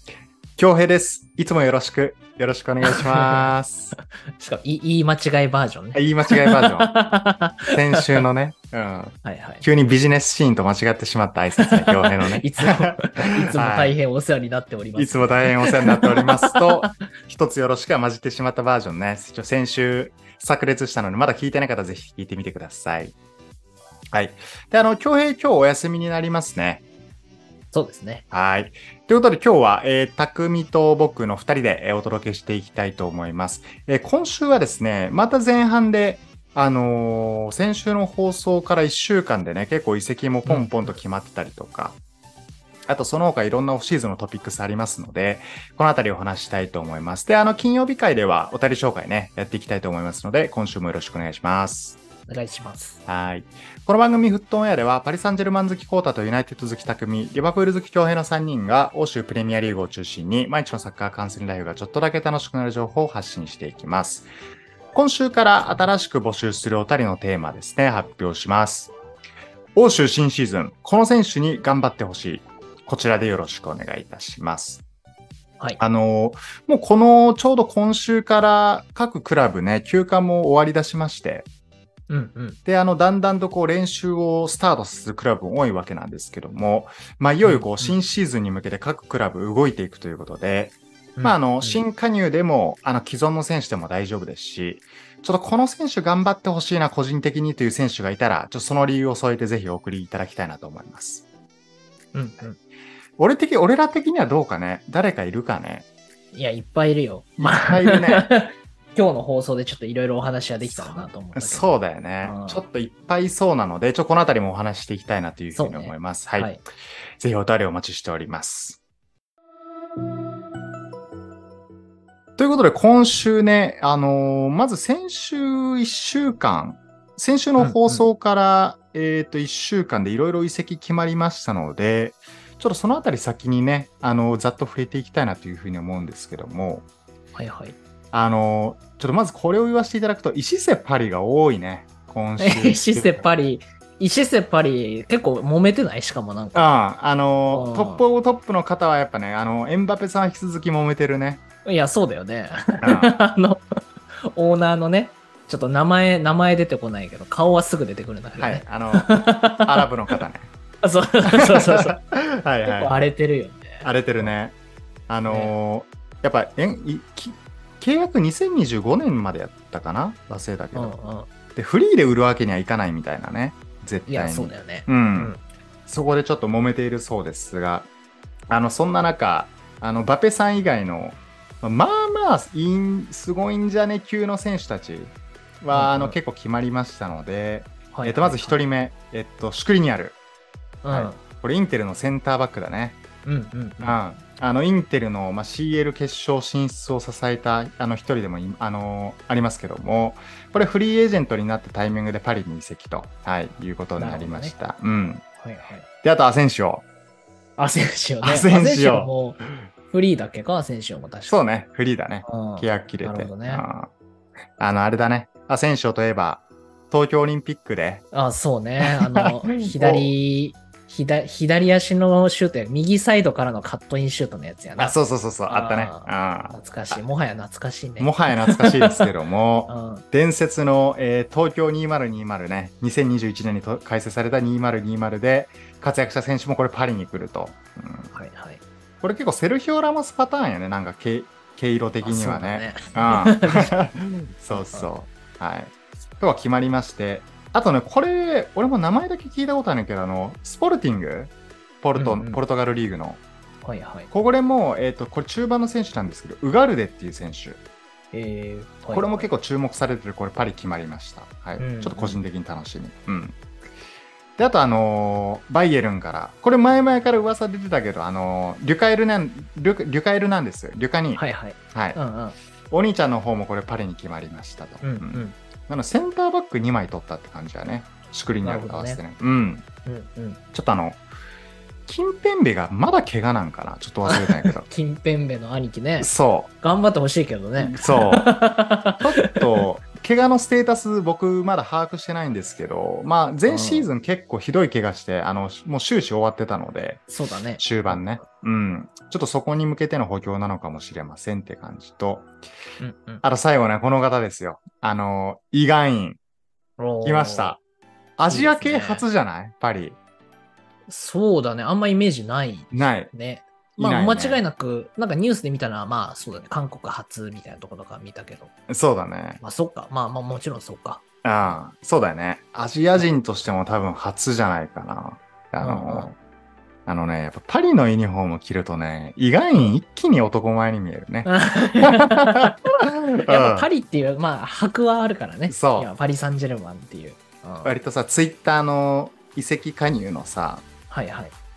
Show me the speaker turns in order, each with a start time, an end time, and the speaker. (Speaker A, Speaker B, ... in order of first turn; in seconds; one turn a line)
Speaker A: 0.6-3.9
Speaker B: 2.8-8.2
Speaker A: 5.9-6.9
Speaker A: 7.7-13.9
Speaker B: 9.2-9.6
Speaker B: 11.6-16.9
Speaker A: 15.0-23.1
Speaker A: 24.1-26.8
Speaker B: 27.7-28.2
Speaker A: 28.3-42.0
Speaker B: 40.5-40.9
Speaker A: 42.9-52.0
Speaker B: 52.3-53.0
Speaker A: 53.1-64.3
Speaker A: 64.9-68.9
Speaker A: 69.8-74.8
Speaker A: 75.8-81.5
Speaker B: 82.1-82.6
Speaker A: 82.7-101.2
Speaker B: 87.4-88.0
Speaker B: 91.2-91.8
Speaker B: 102.1-102.6
Speaker A: 103.2-105.9
Speaker B: 106.3-111.7
Speaker A: 107.4-108.3
Speaker A: 110.7-116.5
Speaker B: 112.2-112.6
Speaker B: 115.5-116.6
Speaker A: 117.2-118.8
Speaker A: 122.4-136.8
Speaker B: 127.6-128.1
Speaker B: 137.3-137.8
Speaker A: 138.1-143.3
Speaker B: 142.4-146.7
Speaker A: 146.5-151.4
Speaker B: 147.5-148.0
Speaker B: 151.7-153.6
Speaker A: 152.8-153.2
Speaker B: 154.2-160.2
Speaker A: 158.4-160.5
Speaker B: 160.8-162.0
Speaker A: 161.3-162.9
Speaker B: 162.6-164.3
Speaker A: 163.8-164.5
Speaker A: 165.1-170.9
Speaker B: 165.3-165.5
Speaker B: 170.7-171.3
Speaker A: 171.5-175.3
Speaker B: 174.1-175.4
Speaker A: 175.8-177.9
Speaker A: 178.5-190.2
Speaker B: 185.7-186.2
Speaker B: 187.9-188.6
Speaker B: 190.8-191.2
Speaker A: 190.9-193.0
Speaker B: 193.2-194.0
Speaker A: 193.8-205.2
Speaker B: 204.0-204.6
Speaker B: 205.4-205.9
Speaker A: 206.0-206.8
Speaker B: 207.6-209.4
Speaker A: 208.2-209.1
Speaker B: 209.9-211.4
Speaker A: 211.3-213.9
Speaker B: 212.2-213.7
Speaker A: 214.6-218.0
Speaker B: 218.1-224.9
Speaker A: 218.8-220.1
Speaker A: 224.8-226.9
Speaker B: 225.5-229.1
Speaker A: 228.0-238.1
Speaker B: 229.7-230.0
Speaker B: 238.1-238.6
Speaker A: 239.0-253.2
Speaker B: 242.0-243.8
Speaker B: 244.5-244.9
Speaker B: 252.0-252.4
Speaker B: 253.6-254.1
Speaker A: 254.1-257.6
Speaker B: 258.1-259.3
Speaker A: 258.9-263.4
Speaker B: 261.6-262.2
Speaker A: 264.4-272.0
Speaker B: 271.1-272.4
Speaker A: 272.7-279.6
Speaker B: 274.8-275.4
Speaker B: 278.4-279.0
Speaker B: 279.8-280.4
Speaker A: 280.5-281.0
Speaker A: 281.9-284.6
Speaker B: 284.0-289.6
Speaker A: 286.0-286.5
Speaker A: 287.6-288.3
Speaker A: 289.0-302.3
Speaker B: 293.5-293.9
Speaker B: 297.1-298.2
Speaker B: 302.8-303.2
Speaker A: 303.2-306.2
Speaker B: 306.8-307.6
Speaker A: 307.0-307.6
Speaker A: 308.2-310.0
Speaker B: 308.3-309.0
Speaker B: 310.9-318.5
Speaker A: 312.7-313.1
Speaker A: 313.8-314.4
Speaker A: 318.7-319.4
Speaker B: 319.4-321.5
Speaker A: 321.2-326.1
Speaker B: 325.6-326.1
Speaker A: 326.9-333.7
Speaker B: 331.2-332.6
Speaker B: 333.2-337.8
Speaker A: 335.5-335.9
Speaker A: 337.6-340.6
Speaker B: 340.9-341.3